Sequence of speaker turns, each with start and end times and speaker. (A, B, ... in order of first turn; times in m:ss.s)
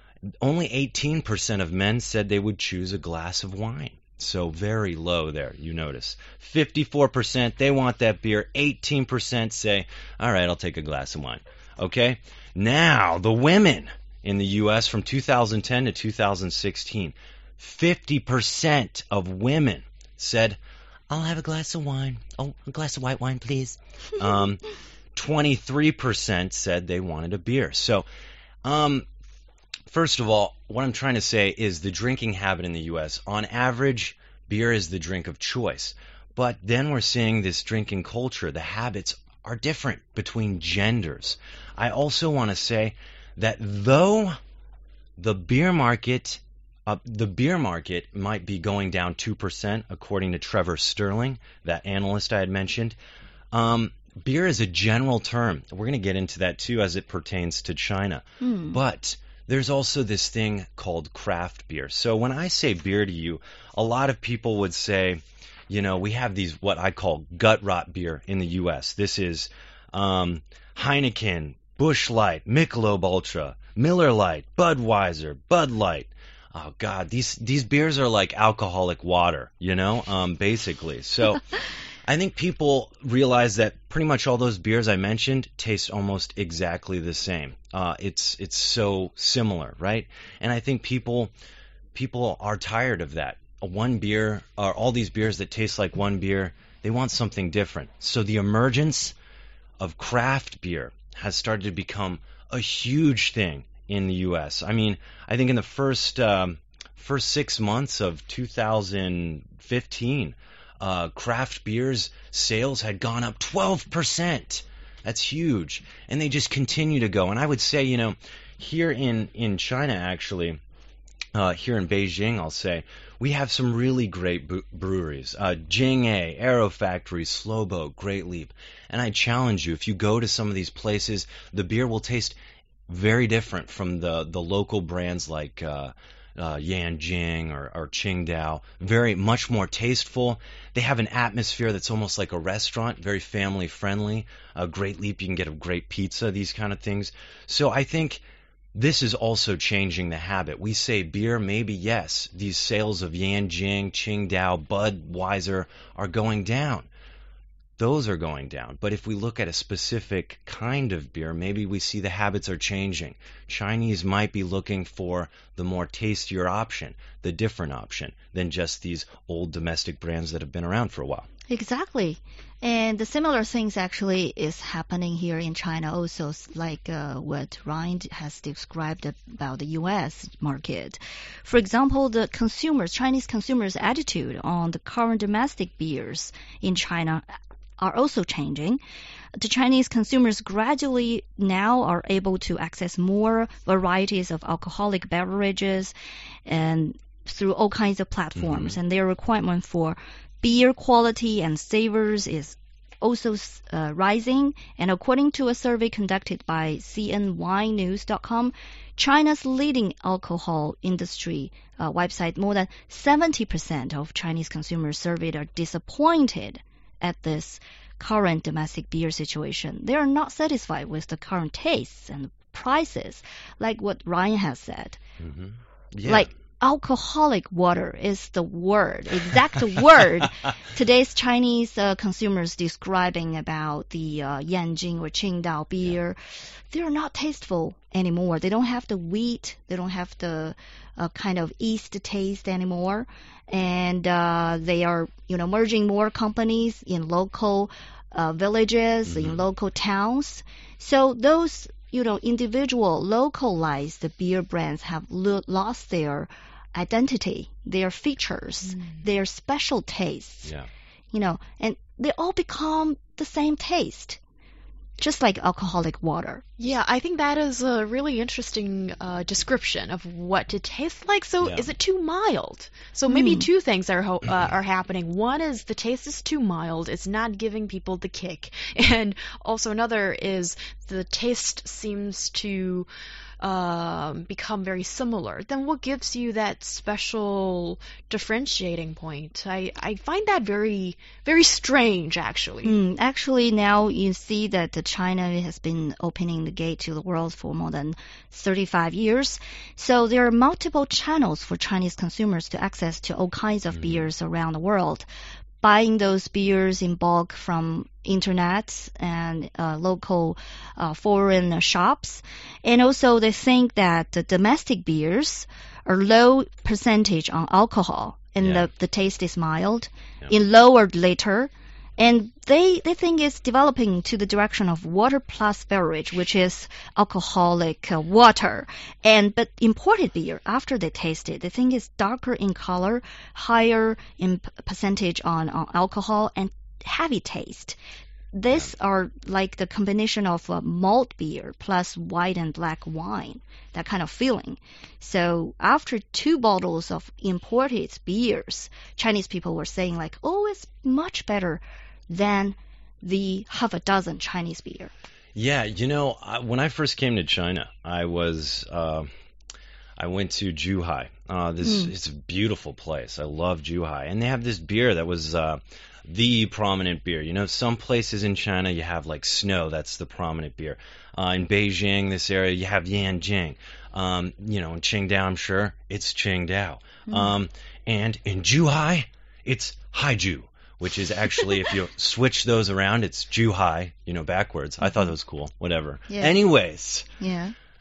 0:00.4-0:20.6 A
0:21.1-0:28.1 A
0:28.6-0:29.0 A
0:29.9-0:44.4 A
0:45.2-0:53.0 A
0:53.5-1:21.4 A
0:58.4-0:58.8 B
1:22.0-1:31.3 A
1:31.9-1:39.1 A
1:39.8-2:00.6 A
2:01.3-2:12.4 A
2:12.9-2:28.2 A
2:28.7-2:36.9 A
2:37.8-2:51.3 A
2:51.5-3:07.2 B
3:07.8-3:08.8 B
3:09.4-3:15.9 B
3:16.4-3:45.0 B
3:18.4-3:18.8 A
3:45.2-3:46.3 A
3:46.0-3:56.2 B
3:56.7-4:20.5 B
4:09.1-4:09.4 A
4:21.1-4:24.2 B
4:25.0-4:26.4 B
4:26.6-4:42.9 C
4:31.4-4:31.7 A
4:33.1-4:33.5 B
4:43.4-4:52.7 C
4:52.6-5:05.0 B
5:03.7-5:04.1 A
5:05.6-5:37.8 B
5:18.4-5:18.7 A
5:38.3-5:54.9 B
5:55.3-5:59.1 A
6:00.0-6:27.1 A
6:01.6-6:01.9 B
6:17.1-6:17.3 B
6:24.8-6:25.1 B
6:26.1-6:26.4 B
6:27.2-6:27.5 B